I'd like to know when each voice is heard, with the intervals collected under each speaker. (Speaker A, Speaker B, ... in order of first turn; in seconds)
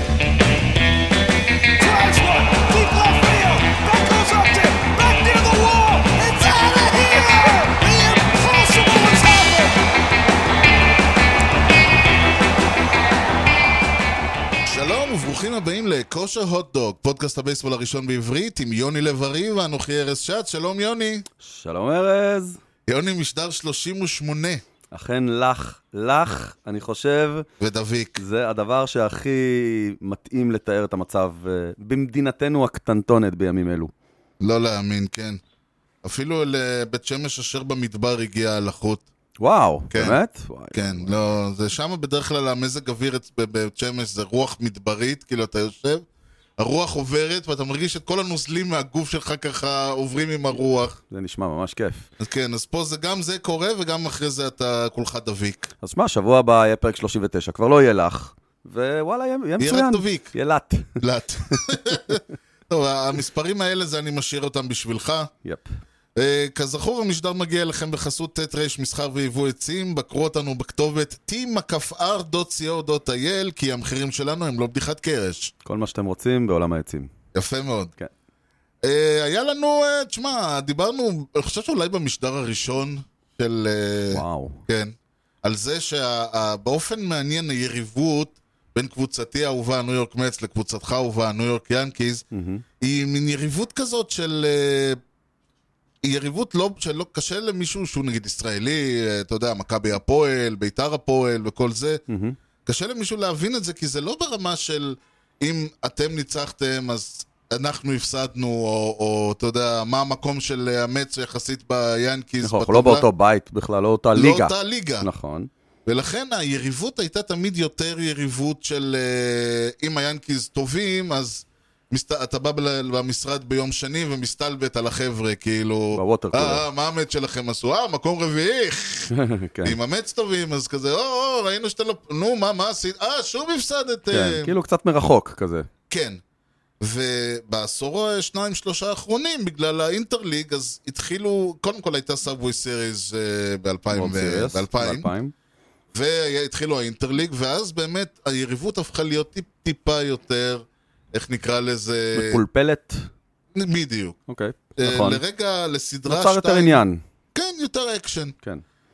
Speaker A: 1.8-9.7
Speaker B: 14.7-21.2, 22.9-24.6, 27.6-28.2, 34.4-35.4, 36.0-39.0, 39.9-40.2, 40.7-46.0, 46.6-51.0, 52.2-55.7, 59.6-60.3, 61.0-65.3, 66.2-75.5, 77.3-77.9, 78.8-92.2, 92.8-95.0, 96.0-102.0, 102.6-113.0, 114.1-115.1, 115.8-134.5, 135.9-136.2, 136.8-145.1, 145.9-152.4, 153.5-154.2, 154.8-156.8, 157.3-158.3
Speaker C: 21.4-22.6, 24.9-27.5, 28.2-33.9, 39.4-41.1, 51.1-52.1, 55.8-61.0, 75.6-77.1, 84.1-84.6, 92.3-92.6, 102.1-102.4, 112.4-115.5, 125.9-126.6, 129.1-129.8, 134.1-135.7, 143.9-145.3, 152.1-153.1, 154.3-155.2, 156.1-157.0